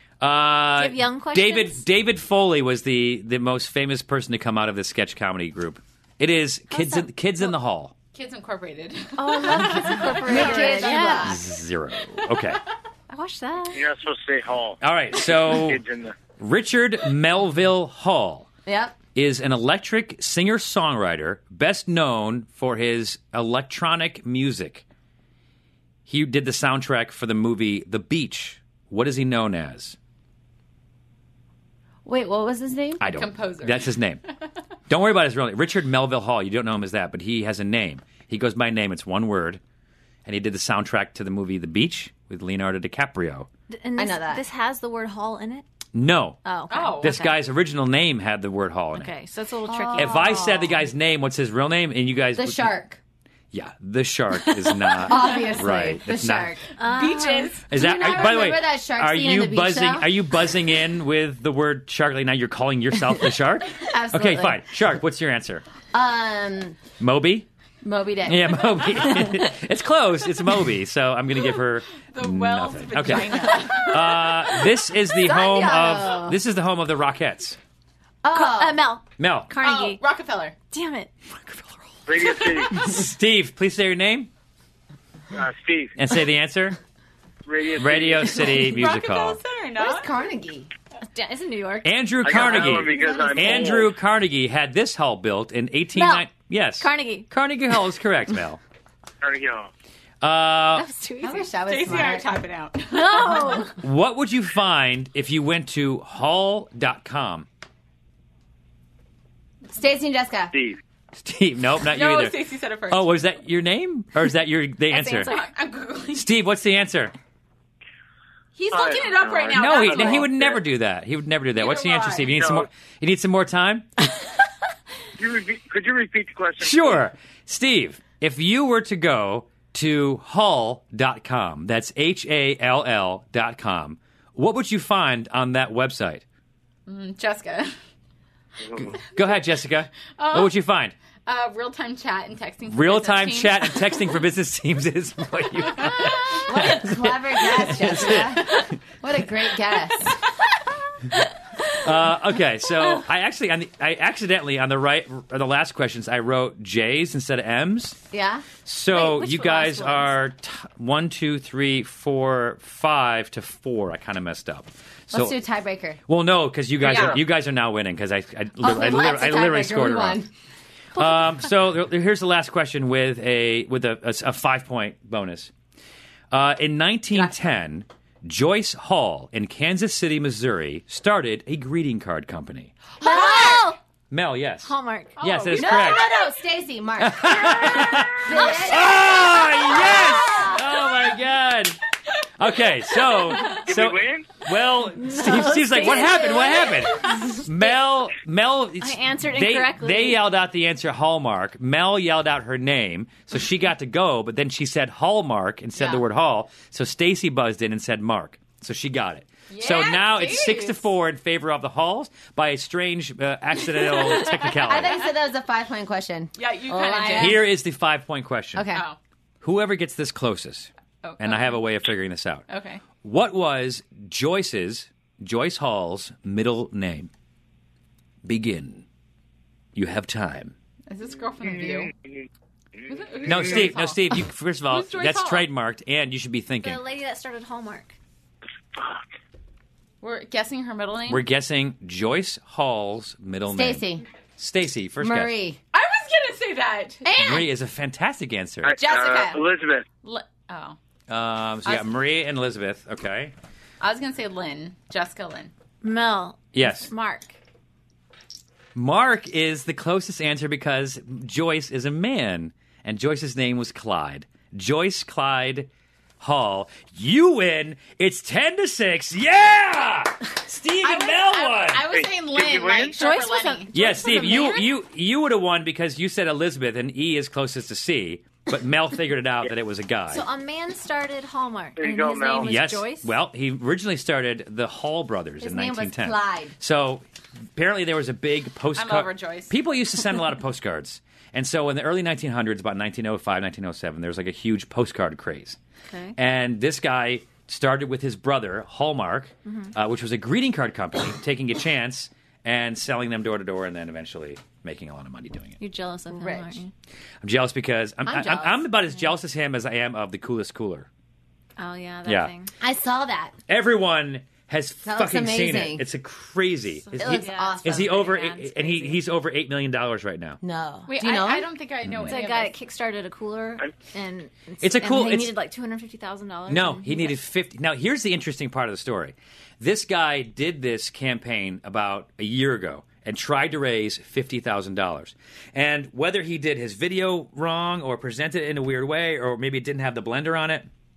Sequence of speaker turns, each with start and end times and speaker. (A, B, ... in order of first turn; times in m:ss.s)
0:00.2-0:07.9 A
0:00.8-0:01.8 B
0:06.7-0:07.0 B
0:08.1-0:11.3 C
0:09.2-0:11.3 B
0:09.7-0:11.4 D
0:11.2-0:12.6 A
0:13.1-0:13.8 B
0:13.7-0:16.2 E
0:14.8-0:15.8 A
0:16.4-0:18.5 A
0:18.6-0:19.0 D
0:19.1-0:24.8 A
0:26.1-0:30.0 A
0:32.0-0:33.0 D
0:33.0-0:34.2 A
0:33.0-0:33.9 C
0:34.9-0:39.6 A
0:40.2-0:43.5 A
0:43.7-0:45.6 B
0:44.0-0:44.4 D
0:45.9-0:46.4 A
0:46.4-0:47.4 B
0:46.7-0:47.1 C
0:47.0-0:49.1 A
0:48.9-0:50.9 B
0:49.7-0:50.4 D
0:50.0-0:52.8 A
0:52.4-0:53.0 D
0:53.5-0:56.5 A
0:54.8-0:55.1 B
0:55.1-0:56.6 D
0:56.8-0:57.6 B
0:56.8-0:57.6 C
0:57.6-1:00.1 D
0:57.7-1:05.6 A
1:03.9-1:04.6 D
1:05.9-1:06.8 D
1:07.0-1:07.5 A
1:07.8-1:08.8 D
1:08.3-1:17.6 A
1:12.1-1:14.6 C
1:15.2-1:16.4 D
1:18.2-1:18.8 D
1:18.3-1:20.0 B
1:19.2-1:19.5 A
1:19.6-1:20.5 C
1:20.7-1:21.6 B
1:22.1-1:22.8 E
1:22.7-1:24.3 A
1:25.3-1:26.0 E
1:26.0-1:26.8 A
1:27.4-1:28.5 E
1:27.8-1:29.4 A
1:28.5-1:30.1 C
1:29.8-1:30.7 D
1:31.1-1:31.9 B
1:31.8-1:38.6 A
1:32.2-1:33.9 E
1:32.9-1:33.8 D
1:35.9-1:37.3 B
1:39.2-1:39.7 E
1:40.2-1:40.8 A
1:40.7-1:41.5 B
1:41.2-1:42.3 D
1:41.6-1:43.6 C
1:42.9-1:43.8 B
1:43.8-1:47.4 A
1:49.7-1:50.5 D
1:50.5-1:50.8 E
1:51.2-1:52.4 A
1:51.9-1:53.1 C
1:52.9-1:55.3 A
1:54.9-1:55.5 B
1:55.3-1:56.3 C
1:56.1-1:57.1 A
1:58.6-2:00.3 C
1:58.7-2:00.6 E
1:59.5-2:03.9 A
2:01.6-2:02.4 C
2:02.3-2:02.7 E
2:05.2-2:07.0 E
2:06.6-2:16.2 A
2:16.9-2:17.7 C
2:18.7-2:18.9 E
2:18.8-2:20.9 A
2:20.2-2:20.5 C
2:21.2-2:23.9 C
2:22.7-2:28.7 A
2:26.3-2:30.2 D
2:31.8-2:38.0 A
2:38.1-2:38.4 D
2:38.6-2:45.4 A
2:38.9-2:40.1 B
2:45.1-2:46.0 D
2:46.1-2:50.2 A
2:46.8-2:47.2 E
2:46.8-2:47.2 C
2:48.6-2:50.3 D
2:51.0-2:51.3 B
2:51.0-2:55.5 A
2:56.3-3:02.7 A
3:03.0-3:03.7 D
3:03.0-3:03.8 B
3:04.1-3:06.1 A
3:04.6-3:05.2 B
3:05.2-3:06.0 C
3:05.6-3:10.4 D
3:07.0-3:11.8 A
3:08.3-3:08.7 B
3:09.9-3:10.5 B
3:12.4-3:35.0 A
3:13.6-3:14.3 E
3:15.0-3:17.5 B
3:18.8-3:20.2 B
3:29.5-3:30.9 C
3:34.1-3:35.1 C
3:34.2-3:37.5 D
3:36.4-3:37.4 C
3:37.1-3:38.7 A
3:38.5-3:38.9 D
3:39.4-3:42.4 A
3:41.0-3:41.6 C
3:42.5-3:42.8 C
3:43.0-3:47.1 A
3:48.2-3:48.8 A
3:49.7-3:50.5 A
3:50.9-3:51.9 C
3:52.9-3:54.0 C
3:53.2-3:56.8 A
3:54.7-3:55.5 C
3:56.6-3:57.9 B
4:00.0-4:01.2 C
4:01.1-4:03.8 A
4:03.5-4:04.0 D
4:04.4-4:05.4 A
4:05.0-4:05.6 D
4:05.7-4:07.5 C
4:07.0-4:07.4 D
4:07.2-4:08.8 A
4:08.6-4:09.8 E
4:08.8-4:09.4 C
4:10.0-4:10.8 C
4:11.1-4:13.3 A
4:13.8-4:15.5 C
4:15.8-4:17.3 B
4:16.5-4:16.9 A
4:18.7-4:25.7 A
4:26.2-4:31.9 A
4:30.8-4:34.5 C
4:31.9-4:33.0 E
4:33.0-4:34.6 B
4:33.7-4:40.2 A
4:40.1-4:43.1 B
4:41.8-4:42.6 E
4:42.4-4:47.0 A
4:45.4-4:46.5 D
4:47.6-4:55.6 A
4:48.8-4:49.5 C
4:55.9-4:56.2 B
4:56.2-5:05.6 A
4:59.4-4:59.7 B
5:05.6-5:06.7 B
5:06.1-5:06.6 D
5:07.2-5:10.9 A
5:08.0-5:08.6 D
5:11.6-5:12.5 B
5:12.0-5:12.3 A
5:12.6-5:13.3 D
5:13.5-5:20.4 A
5:14.8-5:15.8 D
5:16.8-5:18.7 B
5:17.0-5:18.9 D
5:20.4-5:21.5 D
5:20.9-5:22.6 C
5:22.0-5:27.2 B
5:24.6-5:25.3 A
5:26.5-5:40.7 A